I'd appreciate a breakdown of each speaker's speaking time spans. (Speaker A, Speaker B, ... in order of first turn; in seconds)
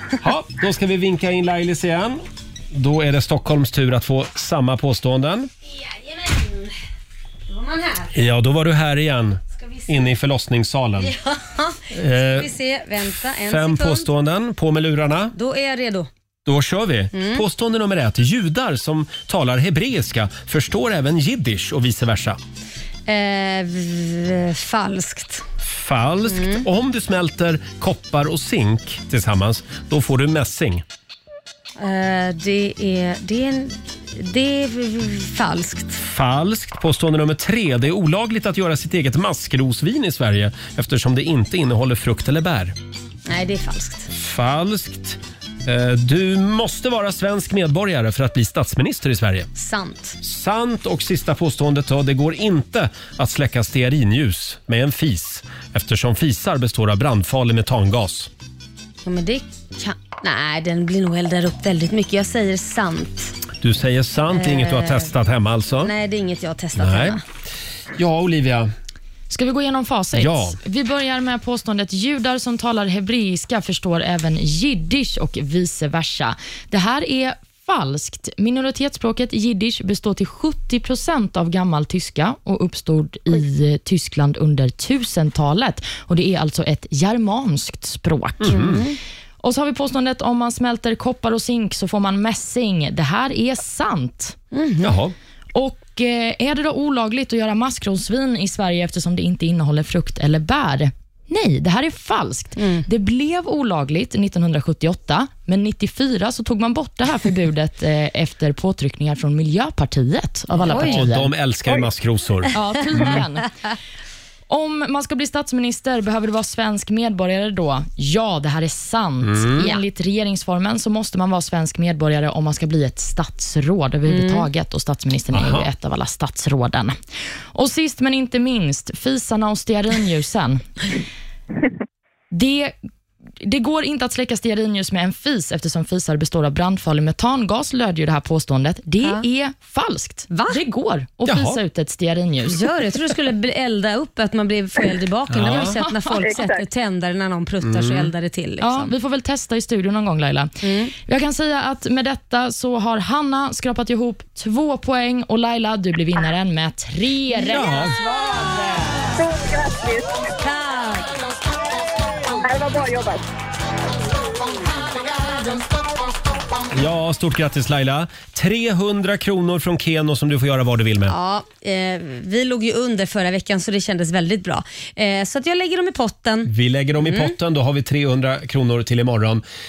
Speaker A: 0.2-5.5, 8.2-11.1, 11.9-12.5, 13.4-15.3, 16.5-22.4, 25.6-30.9, 36.0-42.8, 44.1-49.5, 50.2-58.3, 63.6-65.9, 66.8-67.2, 68.0-68.7, 70.2-70.6, 88.4-88.9, 94.8-95.2, 110.7-113.2, 119.2-119.7, 125.3-125.7, 141.3-141.6, 145.3-145.8, 147.6-148.1, 157.4-158.0, 166.7-171.2, 176.5-179.4
Speaker B: 5.7-6.8, 7.5-8.2, 9.6-10.0, 11.0-14.1, 15.4-16.1, 17.1-17.4, 23.1-25.4, 26.3-26.6, 31.8-36.0, 43.3-44.1, 49.6-50.2, 59.0-63.4, 64.3-65.1, 65.8-67.2, 88.5-89.0, 94.5-94.9, 102.6-102.8, 110.6-111.0, 124.1-124.5, 140.3-140.6, 142.5-148.9, 150.6-150.9, 160.4-161.1, 171.1-177.3
Speaker C: 69.3-88.7, 89.4-94.4, 95.5-111.3, 112.5-113.5, 114.5-127.0, 127.5-130.7, 132.3-132.8, 133.4-142.6, 148.6-150.5, 151.1-158.6
Speaker D: 146.2-146.6, 159.2-160.2, 162.4-163.2